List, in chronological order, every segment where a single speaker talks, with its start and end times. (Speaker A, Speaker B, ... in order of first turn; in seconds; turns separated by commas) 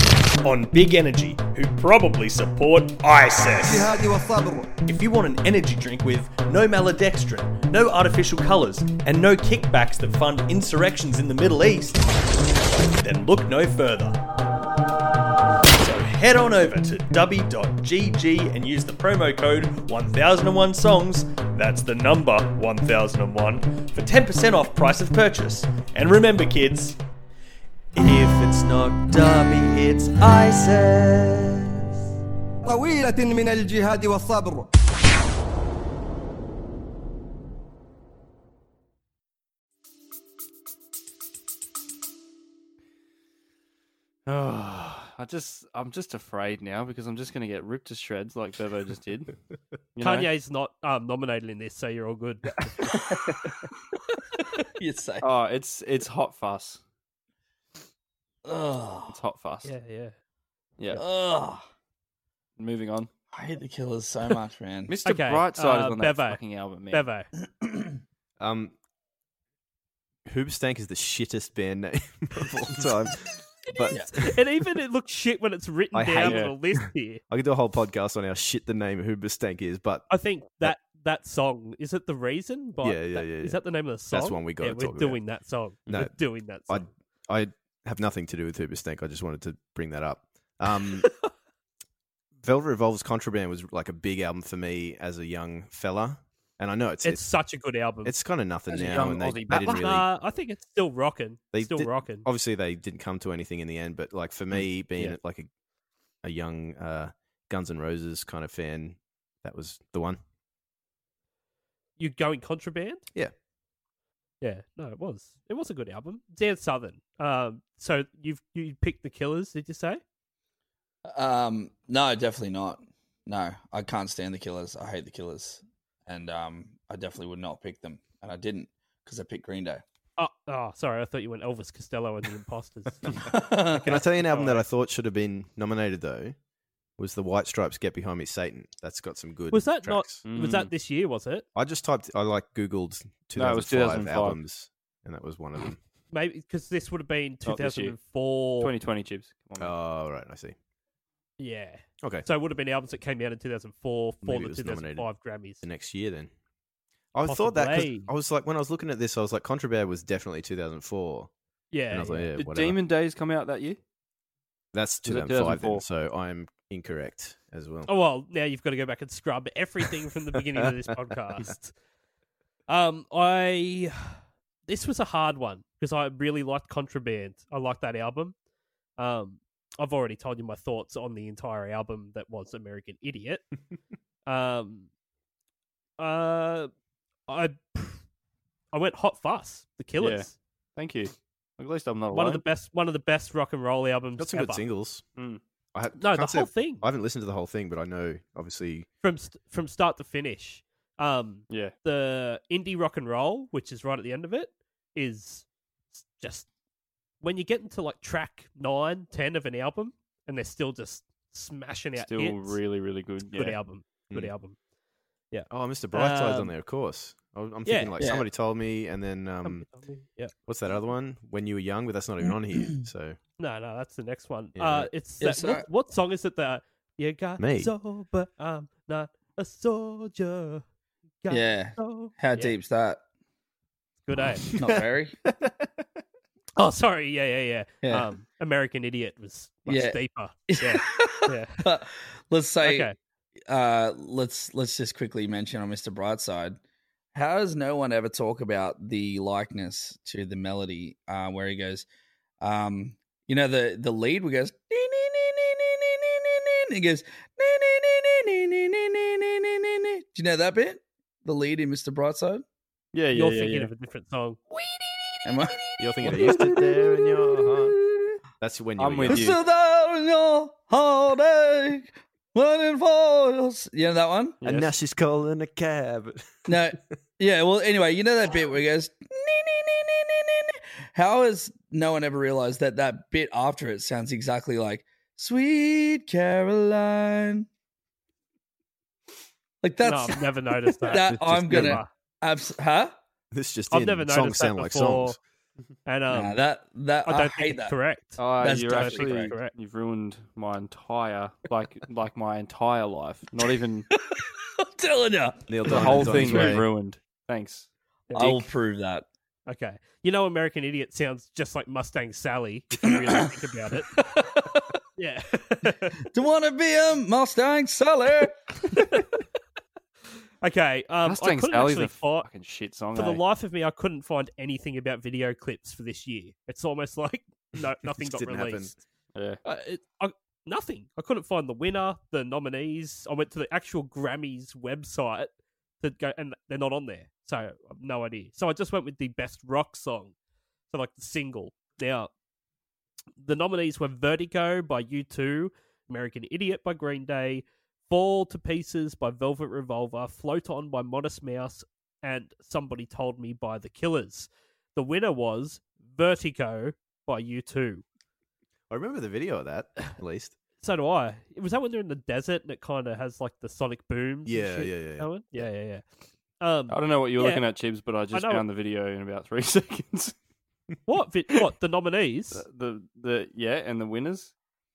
Speaker A: 0.4-3.9, Speaker B: 3.6-4.7, Speaker A: 4.8-12.1, Speaker A: 12.9-14.2, Speaker A: 15.8-27.0, Speaker A: 27.9-31.8, Speaker B: 32.6-34.7, Speaker C: 44.3-49.4, Speaker C: 50.0-50.3, Speaker D: 50.0-52.9, Speaker E: 52.8-53.6, Speaker E: 54.6-55.2, Speaker C: 55.2-56.8, Speaker E: 58.5-59.1, Speaker C: 59.1-59.7, Speaker D: 59.6-60.1, Speaker E: 61.0-61.6, Speaker C: 62.6-63.1, Speaker E: 63.3-64.9, Speaker C: 64.9-67.0, Speaker D: 65.0-66.4, Speaker D: 66.9-67.3, Speaker E: 67.6-68.0, Speaker F: 68.4-68.7, Speaker F: 70.3-74.3, Speaker E: 73.9-74.2, Speaker D: 74.1-77.2, Speaker F: 75.9-76.8, Speaker C: 76.2-76.5, Speaker F: 77.3-80.1, Speaker D: 80.1-86.9, Speaker F: 82.8-85.2, Speaker F: 85.9-86.2, Speaker F: 86.7-91.1, Speaker F: 92.4-97.3, Speaker D: 97.0-98.1, Speaker F: 98.0-100.1, Speaker C: 98.7-99.9, Speaker D: 99.5-102.3, Speaker F: 101.5-105.5, Speaker C: 104.5-105.2, Speaker F: 106.2-110.2, Speaker D: 112.0-113.0, Speaker D: 114.4-120.0, Speaker E: 121.1-129.8, Speaker D: 130.2-133.2, Speaker E: 133.2-133.9, Speaker F: 133.8-136.4, Speaker D: 133.8-134.7, Speaker F: 137.0-140.2, Speaker D: 139.5-141.5, Speaker C: 140.3-140.7, Speaker F: 141.6-145.8, Speaker C: 143.4-144.4, Speaker D: 146.1-148.7, Speaker C: 147.5-148.0, Speaker C: 148.6-149.7, Speaker F: 149.6-150.6, Speaker D: 151.4-155.6, Speaker F: 152.0-152.3, Speaker F: 154.2-155.1, Speaker F: 155.6-156.3, Speaker F: 157.1-161.3, Speaker D: 157.3-158.1, Speaker D: 161.7-162.3, Speaker F: 161.9-162.8, Speaker C: 162.4-163.8, Speaker F: 164.7-167.9, Speaker C: 165.1-165.8, Speaker D: 167.9-171.7, Speaker D: 172.7-178.3, Speaker D: 179.0-183.4, Speaker D: 184.3-184.9, Speaker D: 186.0-186.7, Speaker D: 187.3-188.0, Speaker D: 188.7-190.3, Speaker C: 190.0-192.4, Speaker D: 192.1-194.6, Speaker F: 194.2-195.0, Speaker F: 195.7-198.9, Speaker D: 196.0-196.8, Speaker D: 199.0-206.5, Speaker D: 207.2-212.6, Speaker C: 212.0-213.6, Speaker D: 213.3-214.6, Speaker D: 215.3-216.5, Speaker F: 215.5-219.7, Speaker D: 217.7-217.9, Speaker E: 218.0-218.2, Speaker D: 219.4-220.3, Speaker F: 220.5-223.2, Speaker D: 223.4-230.6, Speaker F: 224.6-224.9, Speaker E: 225.2-225.7, Speaker F: 227.4-227.7, Speaker D: 231.2-232.6, Speaker E: 231.3-233.0, Speaker D: 234.1-234.5, Speaker E: 234.6-235.2, Speaker C: 235.3-235.7, Speaker D: 236.6-241.6, Speaker E: 237.8-238.1, Speaker E: 239.7-242.9, Speaker D: 242.6-243.0, Speaker E: 243.5-246.6, Speaker E: 247.1-251.9, Speaker E: 252.4-262.4, Speaker C: 262.9-263.7, Speaker D: 263.1-264.4, Speaker E: 265.2-266.6, Speaker F: 265.8-267.8, Speaker F: 268.4-269.4, Speaker C: 268.8-269.4, Speaker E: 269.1-274.4, Speaker C: 274.4-274.7, Speaker F: 274.4-276.6, Speaker E: 276.5-287.5, Speaker E: 289.6-290.2, Speaker D: 289.8-291.9, Speaker E: 290.8-292.9, Speaker F: 291.0-291.8, Speaker F: 293.3-295.2, Speaker D: 293.7-295.2, Speaker D: 295.9-296.4, Speaker E: 296.1-297.7, Speaker D: 297.1-299.5, Speaker C: 298.2-303.9, Speaker E: 298.4-299.3, Speaker E: 303.9-305.5, Speaker F: 305.5-306.7, Speaker C: 305.6-307.7, Speaker E: 306.0-306.6, Speaker D: 308.1-308.5, Speaker E: 308.1-309.1, Speaker D: 309.5-313.9, Speaker E: 313.9-314.8, Speaker D: 315.0-316.0, Speaker E: 316.0-318.4, Speaker D: 320.4-322.3, Speaker C: 321.1-323.2, Speaker D: 322.9-328.8, Speaker F: 328.0-328.8, Speaker C: 329.1-329.4, Speaker D: 329.4-340.1, Speaker D: 340.7-342.1, Speaker D: 343.2-357.9, Speaker F: 358.7-360.4, Speaker D: 360.6-365.9, Speaker F: 364.3-365.1, Speaker D: 366.4-367.4, Speaker C: 366.7-370.1, Speaker D: 368.1-368.4, Speaker D: 370.9-372.4, Speaker C: 372.3-374.3